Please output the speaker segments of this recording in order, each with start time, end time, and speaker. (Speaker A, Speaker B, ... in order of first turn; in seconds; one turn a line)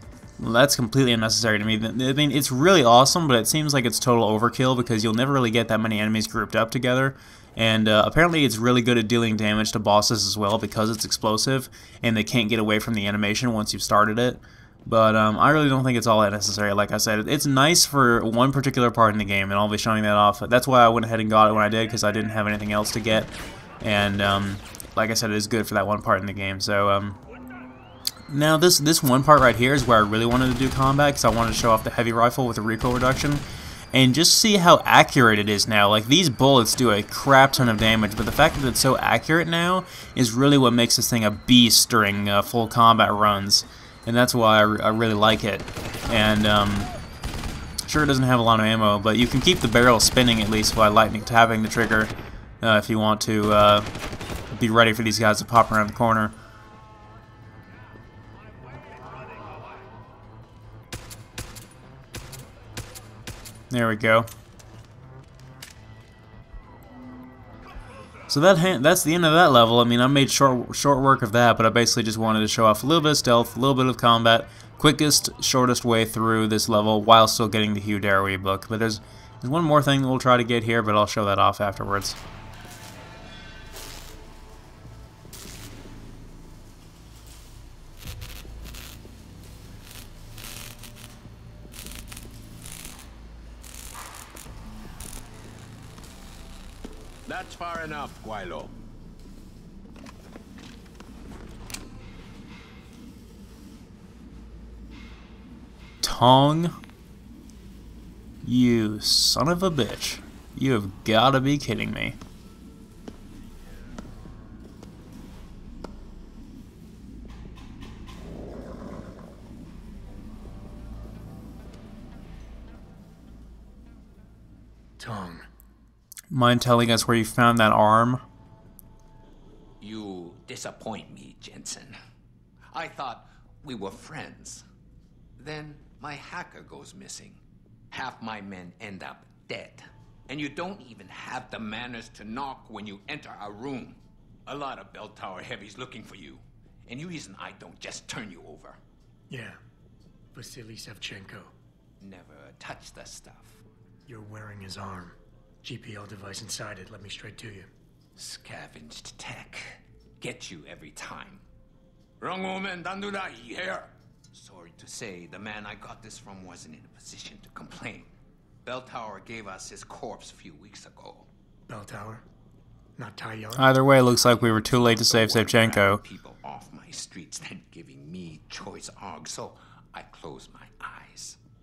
Speaker A: 0.4-27.2
Speaker A: 28.3-46.9
Speaker A: 47.9-53.9
Speaker A: 54.5-56.4
Speaker A: 63.7-64.3
Speaker A: 68.3-82.2
Speaker B: 97.3-98.7
Speaker A: 106.0-106.7
Speaker A: 108.4-112.2
Speaker C: 125.0-125.5
Speaker A: 126.3-128.2
Speaker B: 129.8-131.9
Speaker B: 132.7-134.6
Speaker B: 135.4-137.4
Speaker B: 137.9-148.8
Speaker C: 149.3-149.6
Speaker C: 150.3-151.5
Speaker B: 152.0-153.6
Speaker C: 154.1-157.7
Speaker B: 158.2-161.4
Speaker B: 162.2-168.1
Speaker B: 168.7-171.3
Speaker C: 171.7-172.2
Speaker C: 173.0-173.7
Speaker A: 173.6-176.0
Speaker B: 174.0-181.4